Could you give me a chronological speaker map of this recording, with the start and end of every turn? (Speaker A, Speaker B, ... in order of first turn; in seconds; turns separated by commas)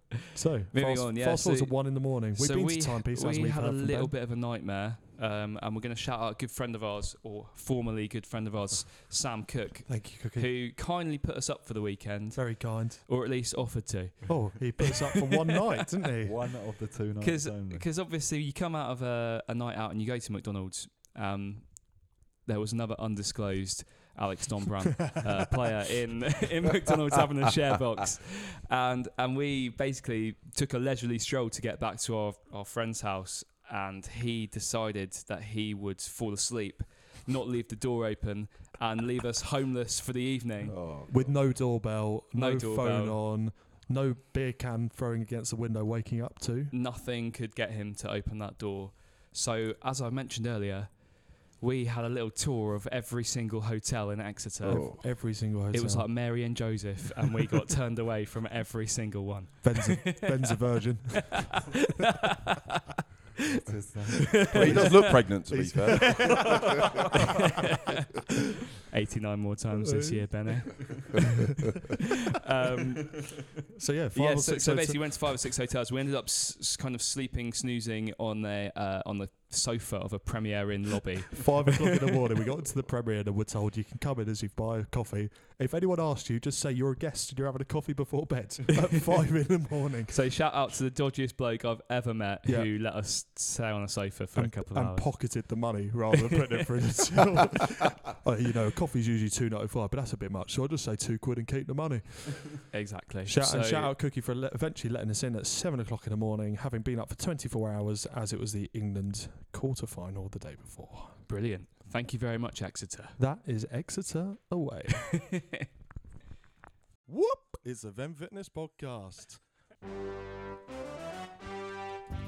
Speaker A: 0.3-4.1, Speaker B: 0.7-14.8, Speaker A: 9.9-10.5, Speaker A: 12.3-13.1, Speaker A: 14.3-16.4, Speaker C: 16.2-17.9, Speaker B: 17.2-40.8, Speaker D: 40.6-41.4, Speaker A: 41.1-46.7, Speaker B: 42.3-43.2, Speaker B: 46.7-60.3, Speaker D: 54.6-55.0, Speaker A: 54.7-56.1, Speaker A: 59.6-61.6, Speaker C: 63.6-64.9, Speaker B: 64.3-65.2, Speaker D: 64.5-66.6, Speaker C: 65.5-66.3, Speaker B: 68.9-71.2, Speaker A: 69.8-70.2, Speaker B: 72.3-73.3, Speaker A: 73.8-75.3, Speaker B: 74.1-81.5, Speaker A: 81.4-90.2, Speaker B: 90.1-95.5, Speaker A: 92.4-92.7, Speaker A: 94.3-102.7, Speaker B: 102.7-103.9, Speaker A: 103.2-111.2, Speaker B: 111.2-113.2, Speaker A: 113.2-115.2, Speaker B: 115.0-115.6, Speaker A: 117.1-119.4